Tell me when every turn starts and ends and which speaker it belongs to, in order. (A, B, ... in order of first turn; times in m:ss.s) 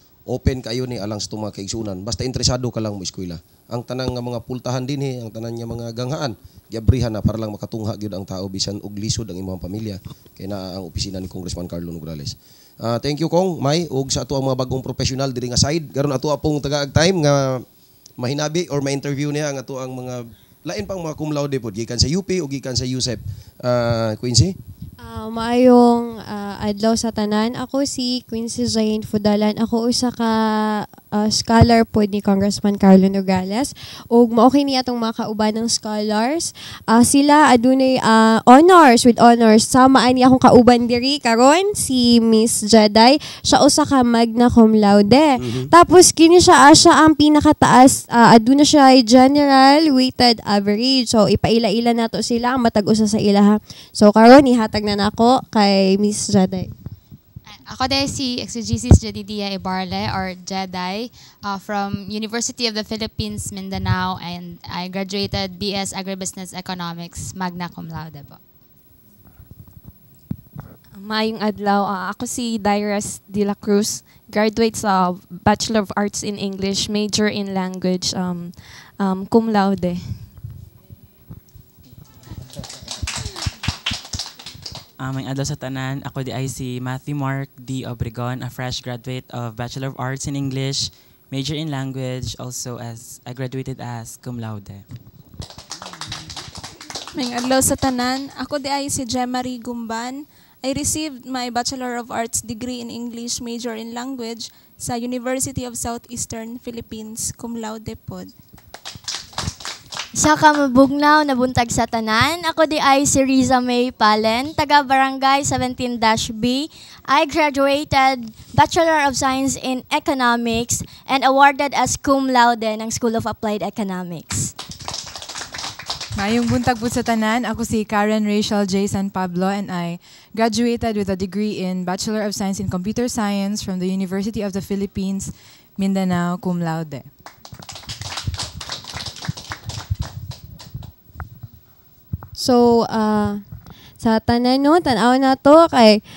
0:00.3-0:17.6 A
0:18.2-0:24.6 A
0:25.0-0:56.7 B
0:45.4-0:45.7 A
0:57.7-1:00.9 C
1:01.5-1:08.4 C
1:10.9-1:20.2 D
1:25.0-1:34.8 E
1:37.2-1:48.3 F
1:50.2-2:04.5 G
2:06.2-2:17.0 H
2:22.4-2:23.4 B
2:24.0-2:26.0 B